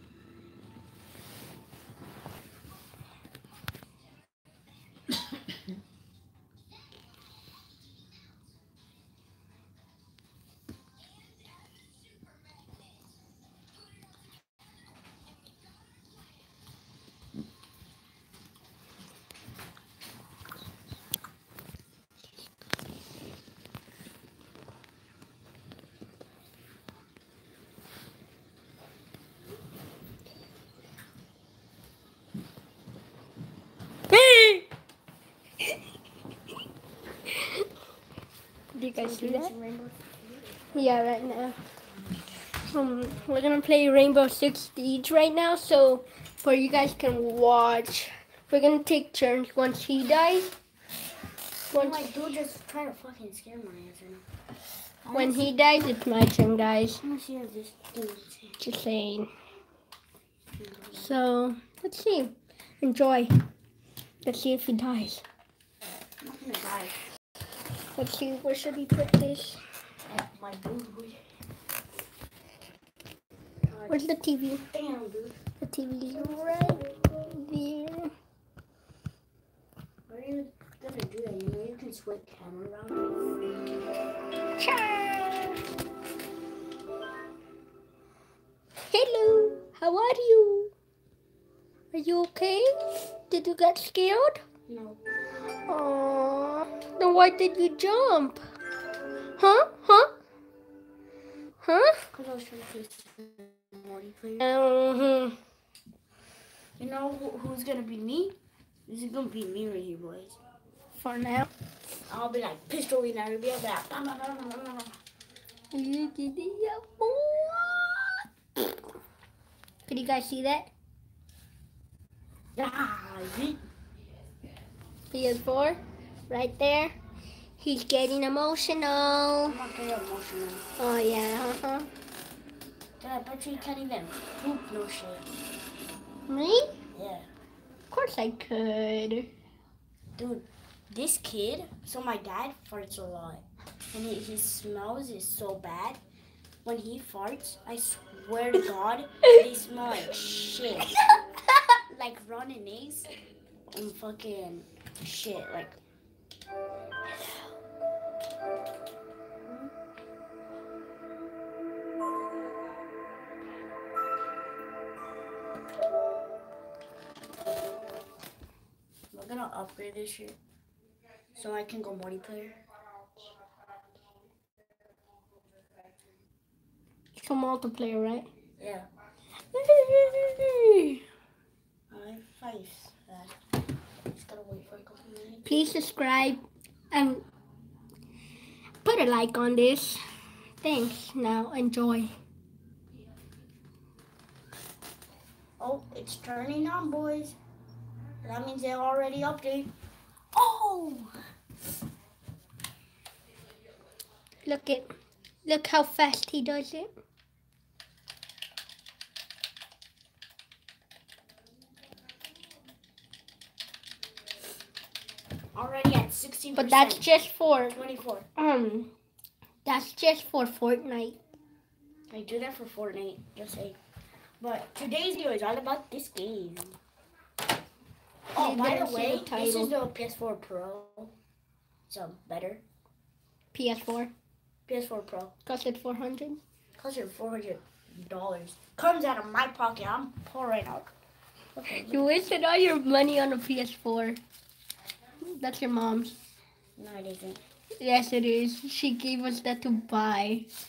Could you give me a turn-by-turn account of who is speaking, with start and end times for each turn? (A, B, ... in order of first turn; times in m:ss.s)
0:34.1-0:34.6 A
0:37.3-0:37.7 B
0:38.7-0:39.6 B
0:38.9-0:40.8 A
0:40.7-0:41.6 B
0:42.6-0:50.6 B
0:51.7-0:52.1 B
0:51.7-0:54.2 A
0:55.0-0:55.6 A
0:55.1-0:57.0 B
0:57.0-0:58.6 A
0:58.6-0:59.3 B
1:00.6-1:01.1 A
1:01.0-1:03.4 B
1:04.2-1:05.2 B
1:06.2-1:07.0 A
1:08.0-1:09.6 B
1:10.1-1:11.2 A
1:13.7-1:14.1 A
1:13.9-1:14.6 B
1:14.7-1:15.4 A
1:15.6-1:18.1 B
1:16.3-1:16.7 A
1:20.1-1:23.4 A
1:24.6-1:25.6 B
1:28.9-1:30.7 B
1:31.9-1:34.4 B
1:34.7-1:35.0 A
1:35.7-1:38.4 B
1:39.4-1:40.1 B
1:41.6-1:42.0 B
1:42.1-1:44.4 A
1:44.4-1:45.4 B
1:46.8-1:48.4 A
1:48.9-1:50.4 A
1:50.9-1:51.5 B
1:52.1-1:55.0 A
1:55.7-1:58.2 B
1:59.9-2:00.7 B
2:02.6-2:03.6 A
2:05.1-2:07.0 B
2:07.6-2:09.6 B
2:09.4-2:10.6 A
2:10.8-2:11.9 B
2:13.0-2:15.3 A
2:16.3-2:16.7 B
2:16.9-2:17.3 A
2:17.9-2:19.3 B
2:20.2-2:26.0 A
2:26.6-2:31.0 A
2:31.9-2:33.1 A
2:33.7-2:35.8 A
2:39.5-2:39.7 A
2:49.1-2:50.4 A
2:51.4-2:52.6 A
2:57.2-2:58.3 B
2:58.6-2:58.9 A
2:59.5-3:01.0 B
3:01.9-3:03.4 A
3:04.1-3:05.5 A
3:05.5-3:07.2 B
3:08.8-3:10.0 B
3:10.6-3:12.1 B
3:15.6-3:17.4 A
3:18.2-3:19.7 A
3:20.3-3:21.1 A
3:24.4-3:24.9 B
3:25.4-3:26.9 B
3:35.6-3:37.1 A
3:36.6-3:37.8 B
3:37.7-3:38.3 A
3:38.4-3:38.9 B
3:39.6-3:41.2 B
3:42.1-3:43.8 A
3:44.4-3:46.8 A
3:48.3-3:51.1 A
3:48.4-3:49.7 B
3:51.9-3:52.6 A
3:53.5-3:54.1 B
3:54.7-3:55.3 A
3:55.5-3:56.4 B
3:56.8-4:00.9 A
4:01.6-4:02.1 A
4:01.7-4:04.2 B
4:05.2-4:06.2 B
4:06.8-4:07.4 A
4:07.8-4:10.5 B